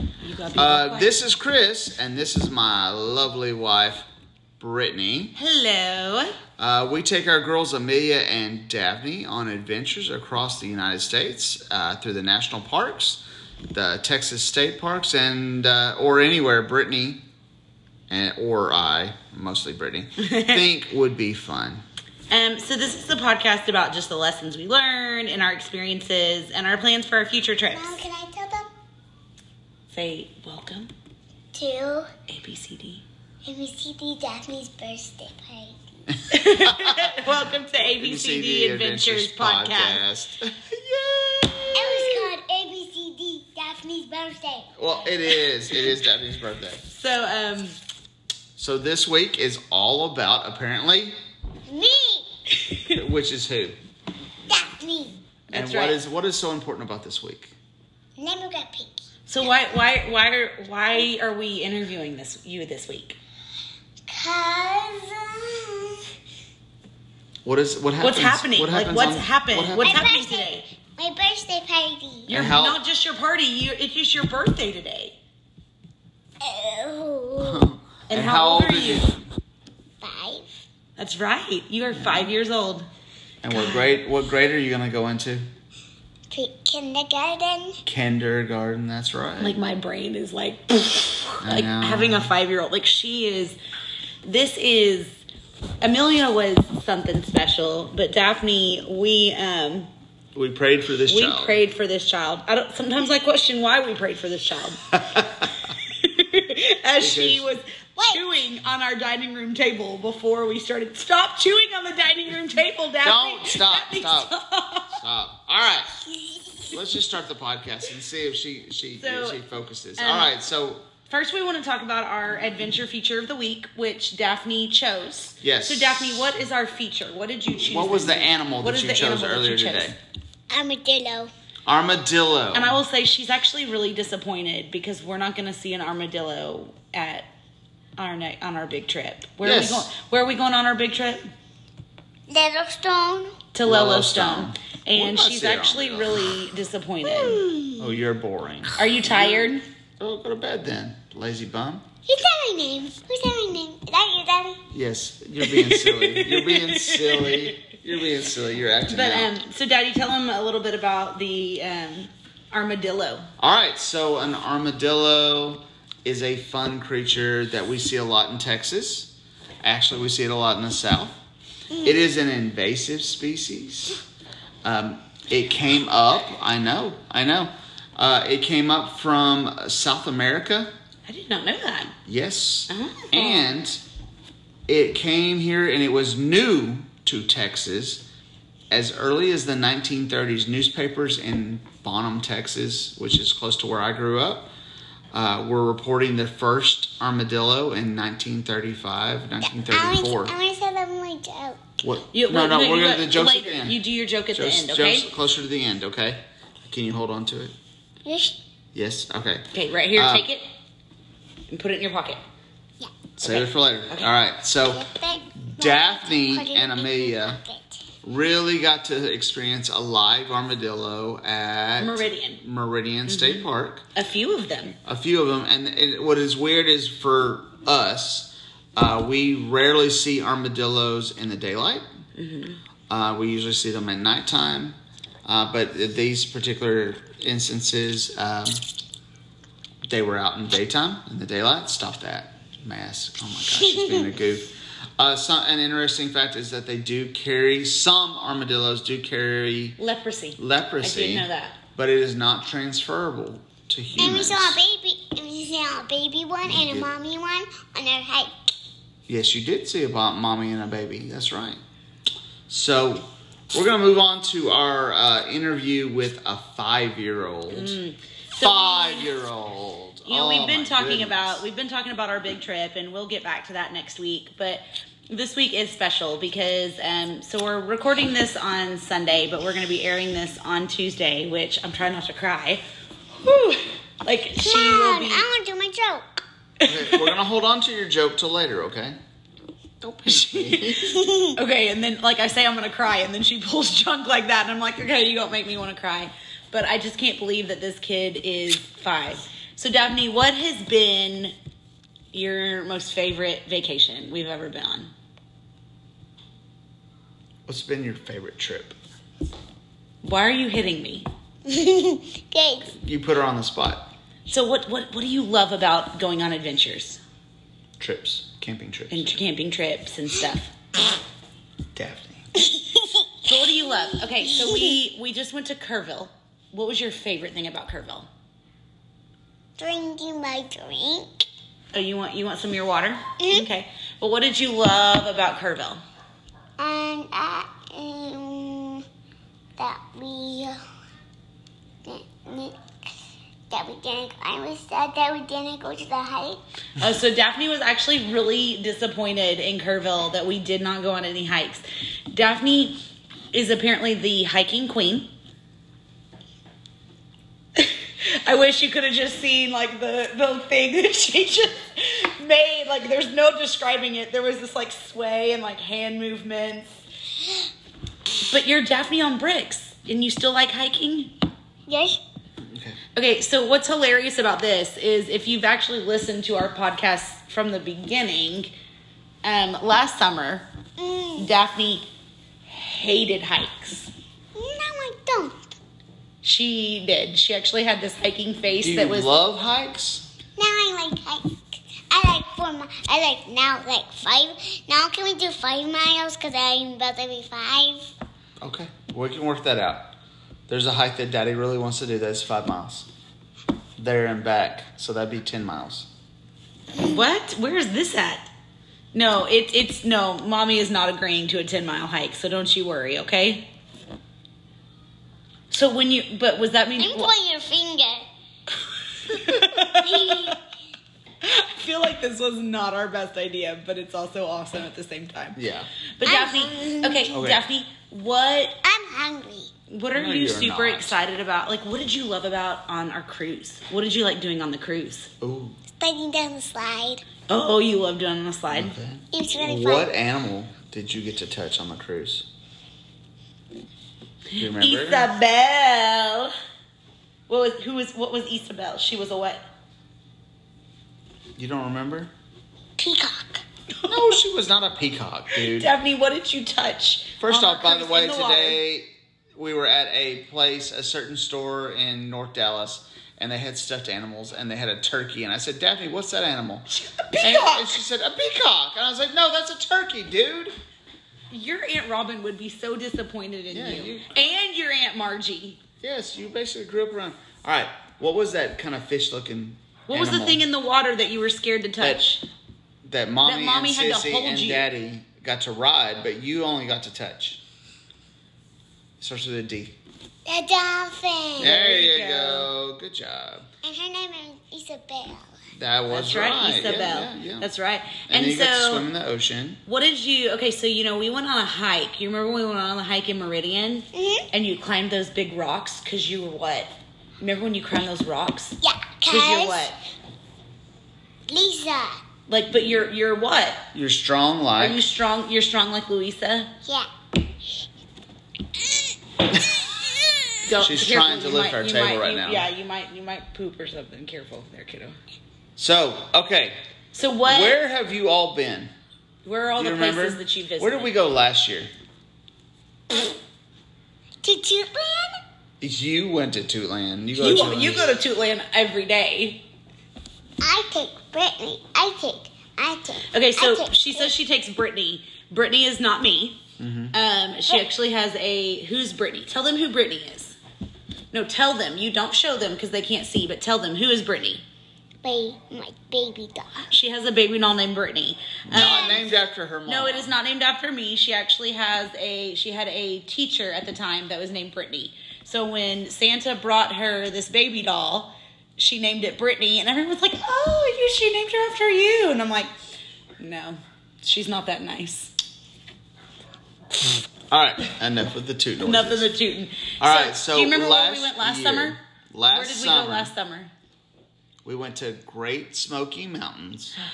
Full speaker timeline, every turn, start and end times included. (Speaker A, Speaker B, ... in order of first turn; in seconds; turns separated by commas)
Speaker A: 0.2-1.1, Speaker B: 0.6-4.1, Speaker B: 4.6-5.3, Speaker A: 5.3-6.4, Speaker B: 6.6-13.2, Speaker B: 13.7-17.2, Speaker B: 18.1-21.8, Speaker A: 20.2-20.6, Speaker A: 22.3-28.0, Speaker C: 27.7-28.7, Speaker A: 29.9-30.9, Speaker C: 31.5-32.1, Speaker A: 32.3-33.0, Speaker C: 33.4-35.8, Speaker B: 36.1-42.3, Speaker A: 36.3-40.0, Speaker C: 41.7-44.7, Speaker B: 44.8-46.8, Speaker A: 46.9-47.8, Speaker B: 48.6-51.1, Speaker C: 51.7-52.3, Speaker B: 52.9-53.8, Speaker C: 54.5-55.1, Speaker A: 55.5-56.0, Speaker B: 55.5-57.5, Speaker C: 58.2-59.0, Speaker A: 59.3-63.2, Speaker C: 64.1-66.1, Speaker B: 67.4-70.0, Speaker A: 68.0-70.6, Speaker C: 69.8-72.3, Speaker A: 72.3-75.2, Speaker B: 72.3-72.8, Speaker C: 76.4-77.7, Speaker B: 77.4-79.2, Speaker A: 78.1-79.1, Speaker C: 80.0-80.6, Speaker A: 81.0-82.9, Speaker B: 81.9-82.3, Speaker B: 83.4-85.5, Speaker A: 83.5-84.0, Speaker C: 86.3-87.8, Speaker B: 87.8-89.6, Speaker A: 89.4-93.6, Speaker B: 91.4-92.3, Speaker A: 94.2-95.2, Speaker A: 95.8-99.9, Speaker B: 100.3-101.6, Speaker A: 101.1-104.9, Speaker B: 104.9-105.5, Speaker A: 105.9-114.9, Speaker B: 107.0-107.4, Speaker C: 108.0-108.4, Speaker B: 113.0-114.3, Speaker B: 114.9-115.9, Speaker C: 116.2-116.7, Speaker B: 116.7-120.8, Speaker A: 119.0-119.4, Speaker A: 120.0-120.3, Speaker A: 121.1-129.9, Speaker B: 125.4-126.3, Speaker B: 127.6-129.9, Speaker C: 130.5-131.3, Speaker B: 131.7-132.8, Speaker A: 132.5-137.3, Speaker A: 138.0-141.3, Speaker B: 139.4-139.9, Speaker C: 142.3-143.4, Speaker A: 143.5-147.4, Speaker B: 143.6-146.3, Speaker C: 147.1-147.9, Speaker B: 147.8-151.8, Speaker A: 148.8-149.6, Speaker C: 152.1-154.6, Speaker B: 154.7-159.3, Speaker A: 155.4-157.7, Speaker A: 158.9-163.3, Speaker B: 163.4-169.1, Speaker B: 169.6-171.2, Speaker B: 171.8-174.0, Speaker B: 174.6-180.7, Speaker A: 181.1-181.9, Speaker B: 182.0-183.8, Speaker A: 182.7-183.5, Speaker B: 184.7-188.1, Speaker B: 188.7-194.5, Speaker B: 195.1-200.3, Speaker C: 199.5-201.8, Speaker B: 201.8-203.8, Speaker A: 202.1-205.1, Speaker B: 204.3-207.5, Speaker C: 208.0-208.4, Speaker B: 208.7-210.2, Speaker A: 209.5-210.4, Speaker A: 211.5-212.2, Speaker B: 213.2-214.9, Speaker A: 213.2-214.1, Speaker C: 214.6-217.8, Speaker B: 215.4-217.4, Speaker B: 218.0-223.8, Speaker A: 221.8-222.4, Speaker A: 223.1-224.8, Speaker B: 224.8-231.8, Speaker A: 232.2-232.6, Speaker B: 232.9-238.6, Speaker B: 239.8-249.8, Speaker A: 249.8-251.6, Speaker B: 250.4-254.6, Speaker C: 254.0-258.5, Speaker B: 256.4-256.9, Speaker B: 259.1-261.6, Speaker B: 262.5-267.8, Speaker A: 267.5-269.1, Speaker B: 268.4-271.4, Speaker A: 270.1-282.6, Speaker A: 283.2-285.2, Speaker C: 284.4-286.1, Speaker A: 286.6-287.1, Speaker B: 286.6-289.0, Speaker A: 289.8-301.3, Speaker B: 290.0-291.0, Speaker C: 290.8-291.4, Speaker A: 302.1-304.9, Speaker B: 307.4-308.7, Speaker A: 310.0-311.1, Speaker C: 311.4-312.7, Speaker B: 312.7-313.9, Speaker A: 314.3-317.0, Speaker B: 317.8-319.1, Speaker A: 318.9-320.5, Speaker B: 321.7-322.3, Speaker C: 322.4-324.8, Speaker A: 323.2-328.1, Speaker C: 329.6-331.2, Speaker A: 331.7-335.8, Speaker C: 333.2-333.5, Speaker C: 336.6-338.8, Speaker C: 339.6-340.6, Speaker C: 341.8-342.6, Speaker C: 343.5-346.4, Speaker A: 346.8-352.8, Speaker A: 353.3-355.1, Speaker A: 357.6-366.8, Speaker A: 368.3-371.1, Speaker C: 371.7-372.0, Speaker B: 372.5-372.8, Speaker A: 372.9-378.5, Speaker A: 379.2-380.5, Speaker C: 380.8-381.3, Speaker A: 381.2-381.8, Speaker A: 382.5-383.9, Speaker C: 384.3-385.6, Speaker A: 386.2-389.1, Speaker B: 388.6-390.1, Speaker C: 390.4-397.9, Speaker B: 398.4-399.9, Speaker B: 400.5-402.9, Speaker B: 403.8-405.9, Speaker A: 406.8-408.3, Speaker A: 408.9-413.5, Speaker A: 415.5-417.1, Speaker C: 416.8-418.1, Speaker A: 419.1-420.4, Speaker C: 419.3-420.4, Speaker A: 421.2-425.4, Speaker B: 425.4-425.7, Speaker A: 426.0-428.6, Speaker C: 426.0-427.1, Speaker B: 427.1-427.4, Speaker C: 428.6-429.5, Speaker A: 429.7-435.1, Speaker B: 429.9-431.0, Speaker B: 435.2-435.6, Speaker C: 435.8-437.0, Speaker A: 437.3-438.7, Speaker B: 438.5-442.2, Speaker C: 439.1-439.9, Speaker A: 444.3-446.3, Speaker B: 444.4-445.1, Speaker A: 447.3-449.4, Speaker B: 451.4-452.1, Speaker C: 452.8-453.4, Speaker B: 453.9-455.7, Speaker A: 455.4-458.6, Speaker B: 457.2-470.5, Speaker A: 466.7-467.8, Speaker A: 471.3-475.6, Speaker B: 473.5-474.2, Speaker B: 475.8-480.4, Speaker A: 479.9-482.2, Speaker B: 482.8-487.4, Speaker A: 483.2-484.7, Speaker B: 489.0-489.8, Speaker C: 490.2-491.6, Speaker B: 491.4-493.5, Speaker A: 491.5-492.5, Speaker C: 493.6-495.4, Speaker B: 495.5-497.5, Speaker A: 495.9-498.9, Speaker B: 498.1-499.6, Speaker A: 499.6-509.8, Speaker C: 503.9-504.3, Speaker C: 508.6-509.7, Speaker C: 511.3-512.0, Speaker A: 512.3-513.7, Speaker B: 513.7-514.9, Speaker A: 514.6-516.5, Speaker C: 519.6-520.3, Speaker A: 520.4-525.0, Speaker B: 520.6-522.5, Speaker B: 525.6-526.6, Speaker A: 526.9-527.6, Speaker B: 527.2-528.7, Speaker A: 529.2-530.9, Speaker B: 529.6-531.7, Speaker C: 534.2-535.2, Speaker B: 535.6-537.9, Speaker A: 537.2-539.5, Speaker C: 540.4-544.1, Speaker A: 543.1-546.4, Speaker B: 546.6-546.9, Speaker A: 546.9-550.4, Speaker A: 551.1-554.4, Speaker C: 555.0-556.6, Speaker A: 556.7-559.1, Speaker B: 558.5-560.1, Speaker C: 558.5-559.0, Speaker A: 559.6-572.5, Speaker A: 573.2-575.1, Speaker B: 577.3-579.1, Speaker A: 578.6-583.5, Speaker B: 579.8-583.1, Speaker B: 584.4-586.7